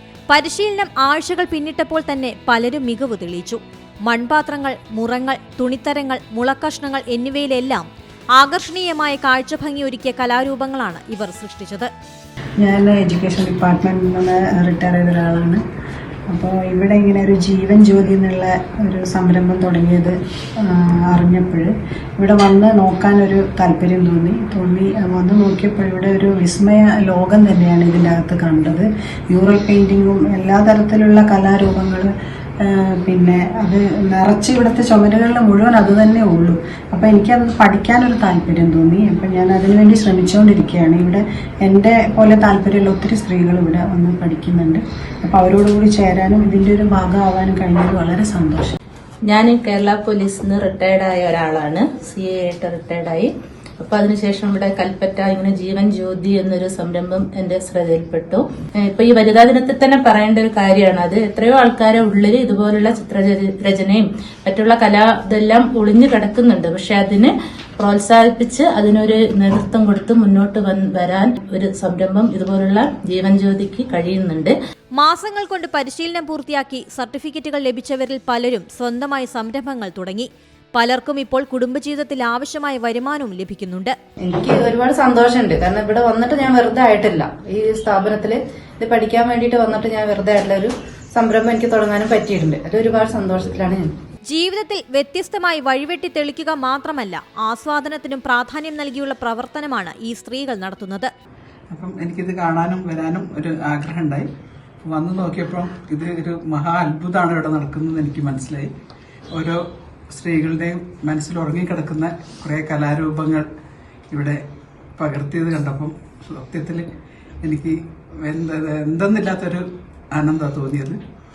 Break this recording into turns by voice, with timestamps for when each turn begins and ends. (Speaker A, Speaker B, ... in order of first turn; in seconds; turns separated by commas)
Speaker A: 0.3-11.9, Speaker B: 12.6-15.6, Speaker B: 16.3-32.1, Speaker B: 32.6-48.8, Speaker C: 49.3-74.5, Speaker A: 75.0-84.0, Speaker D: 84.2-93.9, Speaker A: 94.3-101.1, Speaker E: 101.7-104.3, Speaker E: 104.8-108.7, Speaker E: 109.3-113.5, Speaker E: 114.1-114.4, Speaker E: 115.0-116.9, Speaker E: 117.4-121.0